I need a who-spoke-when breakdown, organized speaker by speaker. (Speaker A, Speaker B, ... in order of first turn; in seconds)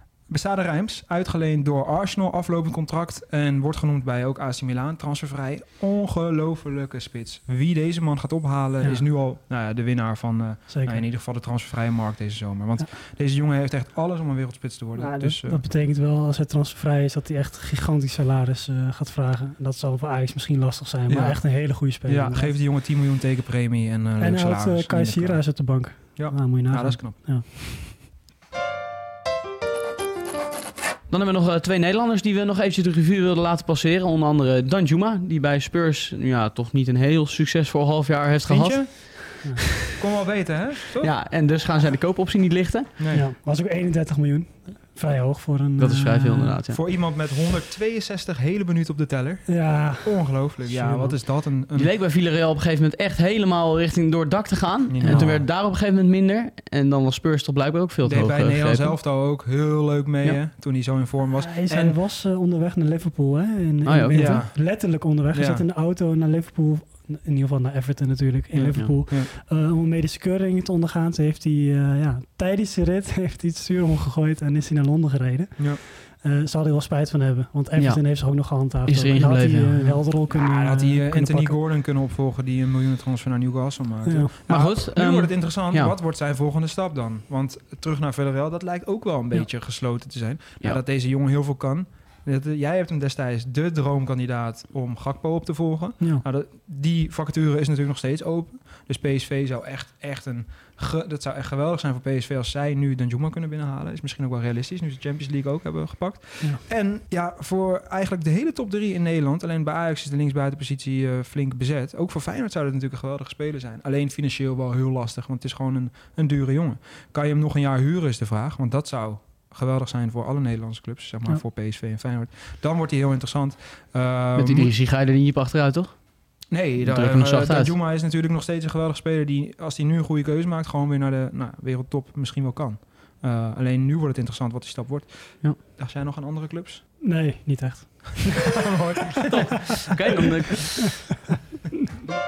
Speaker A: 0.3-15.6, 21.1-27.3, 38.5-41.1, 43.0-43.3, 46.7-51.9, 54.9-55.5, 58.0-62.0, 64.2-65.6, 68.5-69.3, 79.9-124.7, 126.5-136.8, 138.3-139.8
Speaker B: 10.7-11.0, 15.0-22.5, 24.2-27.5, 43.1-46.6, 49.5-51.2, 55.0-55.4, 61.4-81.6, 84.1-84.3, 137.0-138.7
Speaker C: 31.1-39.5, 41.0-42.9, 45.8-46.8, 51.7-59.0, 63.9-64.5, 77.8-78.0, 78.8-80.0, 84.5-86.0, 124.3-126.0, 126.8-127.7, 139.2-141.0